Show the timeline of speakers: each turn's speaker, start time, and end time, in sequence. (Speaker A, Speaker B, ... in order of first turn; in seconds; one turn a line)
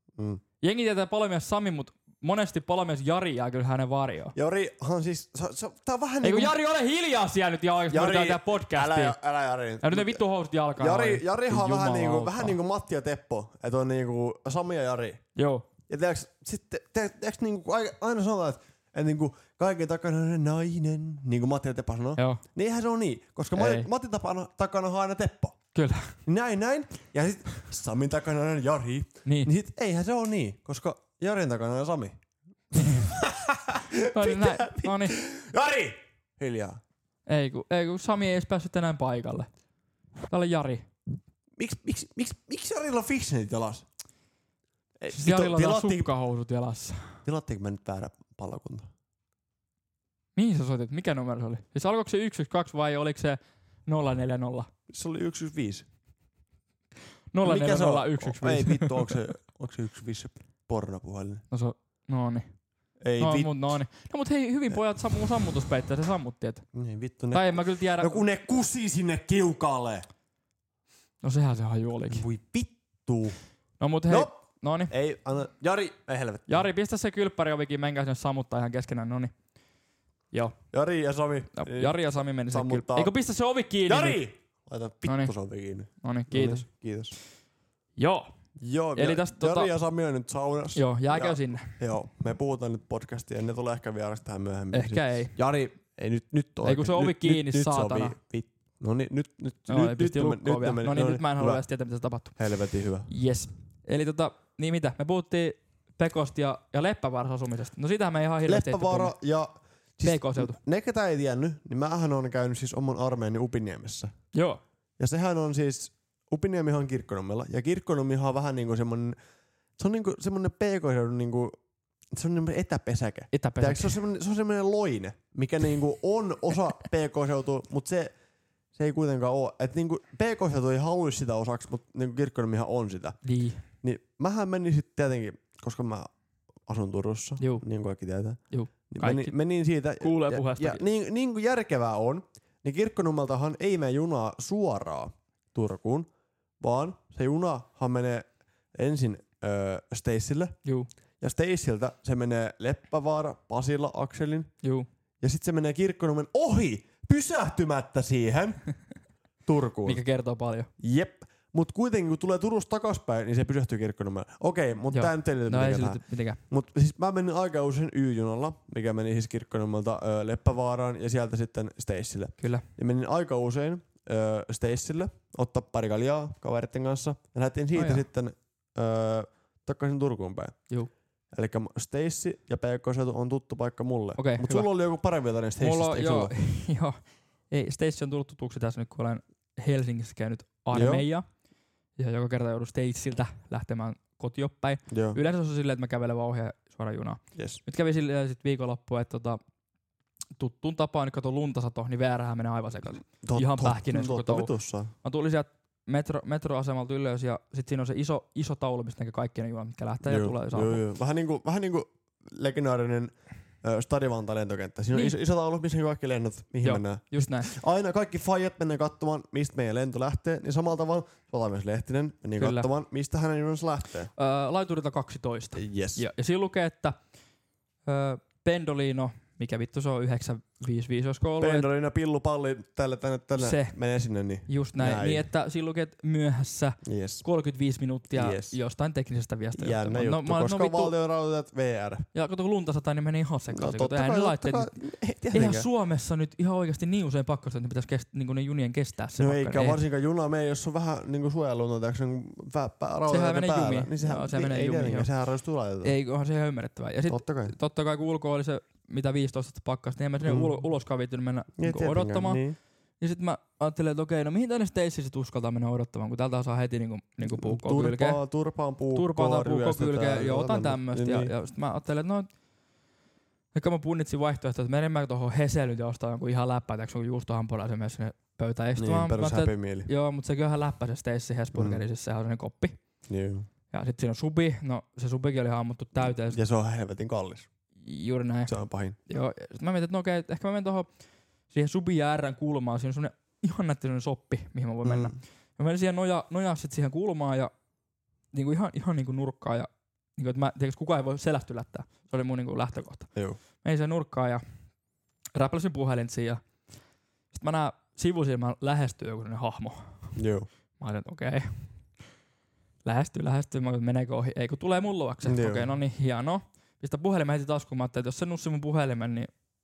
Speaker A: 0.2-0.4
Speaker B: 0.6-4.3
Speaker A: 4.3-6.6
Speaker B: 6.2-9.2
Speaker A: 7.9-10.2
Speaker B: 9.8-12.6
Speaker A: 10.8-15.2
Speaker B: 15.3-15.7
Speaker A: 15.9-25.6
Speaker B: 22.2-22.4
Speaker B: 23.5-23.9
Speaker B: 25.7-26.1
Speaker A: 26.2-32.2
Speaker B: 29.2-29.5
Speaker A: 32.7-36.8
Speaker B: 34.1-35.2
Speaker B: 37.3-39.5
Speaker B: 40.3-40.9
Speaker A: 41.6-43.8
Speaker A: 45.0-46.1
Speaker B: 45.1-47.2
Speaker A: 47.2-48.9
Speaker B: 50.4-54.7
Speaker A: 54.9-55.9
Speaker B: 57.3-59.2
Speaker A: 57.4-61.4
Speaker B: 61.5-62.5
Speaker A: 63.0-63.5
Speaker B: 63.2-66.6
Speaker A: 66.7-70.0
Speaker B: 67.3-68.2
Speaker B: 71.2-72.2
Speaker A: 72.1-73.3
Speaker B: 73.8-74.9
Speaker A: 74.9-76.7
Speaker B: 76.5-79.3
Speaker B: 80.3-80.6
Speaker A: 80.7-83.1
Speaker B: 81.5-84.2
Speaker A: 83.9-87.1
Speaker B: 85.0-85.3
Speaker B: 86.0-86.7
Speaker B: 88.0-88.3
Speaker A: 88.6-101.6
Speaker B: 89.0-89.7
Speaker B: 90.7-91.8
Speaker B: 94.7-95.4
Speaker B: 96.6-98.2
Speaker B: 99.7-102.4
Speaker A: 102.4-103.1
Speaker B: 103.1-109.1
Speaker A: 108.5-114.1
Speaker B: 110.0-110.6
Speaker B: 114.3-114.6
Speaker A: 115.0-119.2
Speaker A: 119.8-121.6
Speaker A: 122.1-128.1
Speaker B: 123.3-124.0
Speaker A: 128.7-133.2
Speaker B: 133.2-133.6
Speaker A: 133.8-136.1
Speaker A: 136.7-146.1
Speaker B: 138.5-139.3
Speaker B: 140.0-140.8
Speaker A: 146.6-150.5
Speaker A: 151.2-154.5
Speaker A: 155.2-158.6
Speaker A: 159.4-160.0
Speaker B: 159.8-160.7
Speaker A: 160.8-180.6
Speaker B: 164.9-166.4
Speaker B: 172.4-172.6
Speaker B: 177.7-178.0
Speaker A: 181.3-186.3
Speaker B: 184.2-184.7
Speaker B: 185.6-187.0
Speaker B: 187.5-191.2
Speaker A: 190.7-191.0
Speaker B: 192.0-199.4
Speaker A: 194.9-195.2
Speaker A: 197.3-197.6
Speaker B: 200.4-204.5
Speaker A: 203.2-204.9
Speaker B: 205.0-210.8
Speaker A: 210.0-224.1
Speaker B: 216.6-217.5
Speaker B: 222.4-222.7
Speaker B: 224.2-227.0
Speaker A: 225.6-226.0
Speaker B: 227.8-231.7
Speaker A: 231.4-235.2
Speaker B: 233.4-233.8
Speaker B: 234.5-240.9
Speaker A: 236.8-237.2
Speaker A: 238.1-238.6
Speaker A: 239.6-242.1
Speaker B: 242.1-244.7
Speaker A: 243.5-245.7
Speaker B: 245.3-249.8
Speaker A: 249.2-255.9
Speaker B: 253.1-255.1
Speaker B: 255.8-262.4
Speaker A: 257.1-257.5
Speaker A: 260.2-260.5
Speaker A: 261.6-262.6
Speaker B: 263.0-268.2
Speaker A: 267.3-271.3
Speaker B: 268.9-272.3
Speaker B: 273.5-282.8
Speaker A: 278.8-279.9
Speaker A: 281.5-281.8
Speaker A: 283.1-283.5
Speaker B: 283.7-286.4
Speaker A: 286.1-287.5
Speaker B: 287.8-288.5
Speaker A: 288.5-288.9
Speaker B: 289.1-290.9
Speaker B: 291.5-297.5
Speaker A: 294.8-295.1
Speaker B: 298.3-303.1
Speaker B: 303.6-304.4
Speaker B: 305.3-306.4
Speaker B: 307.3-310.1
Speaker A: 310.1-310.5
Speaker B: 310.8-311.7
Speaker B: 312.8-319.3
Speaker A: 315.2-315.7